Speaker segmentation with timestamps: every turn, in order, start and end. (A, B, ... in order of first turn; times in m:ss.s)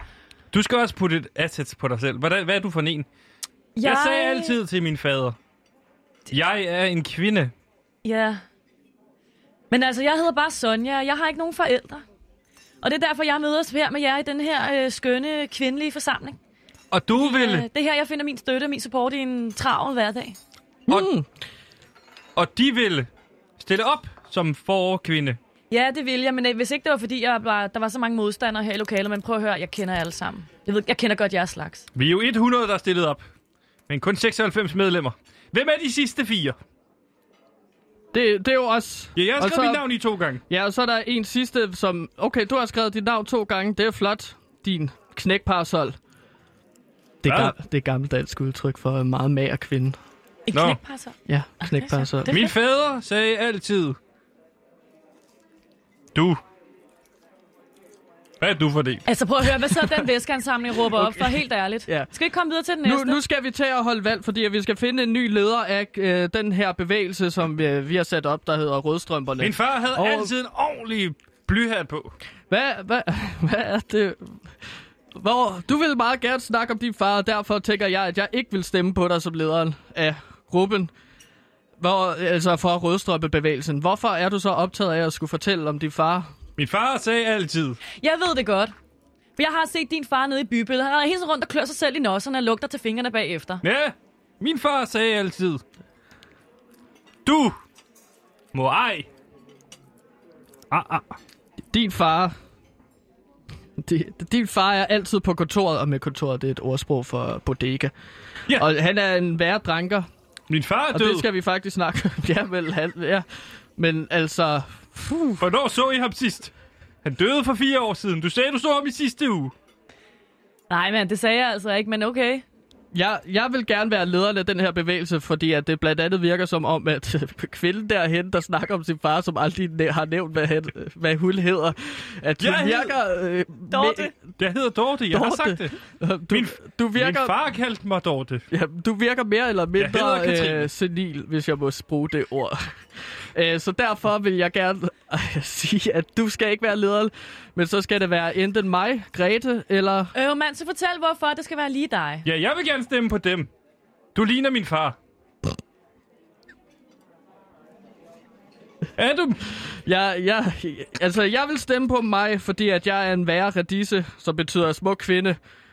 0:00.5-0:03.1 A
0:03.8-0:04.6 B
0:03.8-0:05.4 A
0:06.3-0:07.5 A
0:08.0-0:08.4 B
0:09.7-0:12.0 B
0:12.8-0:16.4 B
0:16.9-0:17.7 A
0:17.1-0:20.4 B
0:20.9-0:21.3 C
0:22.4-0:23.1 A
0:23.6-0:25.4 A
0:25.7-0:31.9 B
0:32.0-0:33.2 A
0:33.9-0:36.6 A
0:38.1-0:39.8 C
0:39.2-0:40.4 A
0:40.5-0:46.0 C
0:47.2-0:50.0 C
0:47.3-0:47.6 A
0:50.5-0:52.5 B
0:50.5-0:50.8 A
0:51.3-0:52.4 C
0:52.3-0:54.0 A
0:56.2-0:56.4 A
0:58.4-0:59.0 A
0:59.1-1:03.2 B
1:00.8-1:02.1 C
1:02.8-1:10.3 C
1:09.4-1:12.1 A
1:12.5-1:14.4 C
1:15.1-1:20.9 C
1:21.8-1:26.3 C
1:26.6-1:27.8 A
1:28.0-1:28.7 B
1:29.4-1:33.6 B
1:33.6-1:35.6 A
1:37.3-1:37.6 A
1:38.5-1:39.1 A
1:40.7-1:41.2 A
1:41.7-1:42.4 C
1:43.8-1:47.9 C
1:48.5-1:50.1 C
1:50.5-1:51.3 A
1:50.9-1:55.4 C
1:55.4-1:56.5 A
1:57.0-1:59.5 A
2:00.7-2:02.4 B
2:02.9-2:14.2 C
2:12.4-2:13.0 A
2:13.7-2:14.1 B
2:14.4-2:15.8 A
2:15.1-2:17.4 C
2:16.3-2:18.4 A
2:18.5-2:22.7 C
2:19.8-2:20.7 A
2:23.3-2:30.1 C
2:30.2-2:32.2 B
2:32.2-2:33.5 A
2:34.2-2:35.0 A
2:39.0-2:39.4 A
2:39.5-2:45.4 C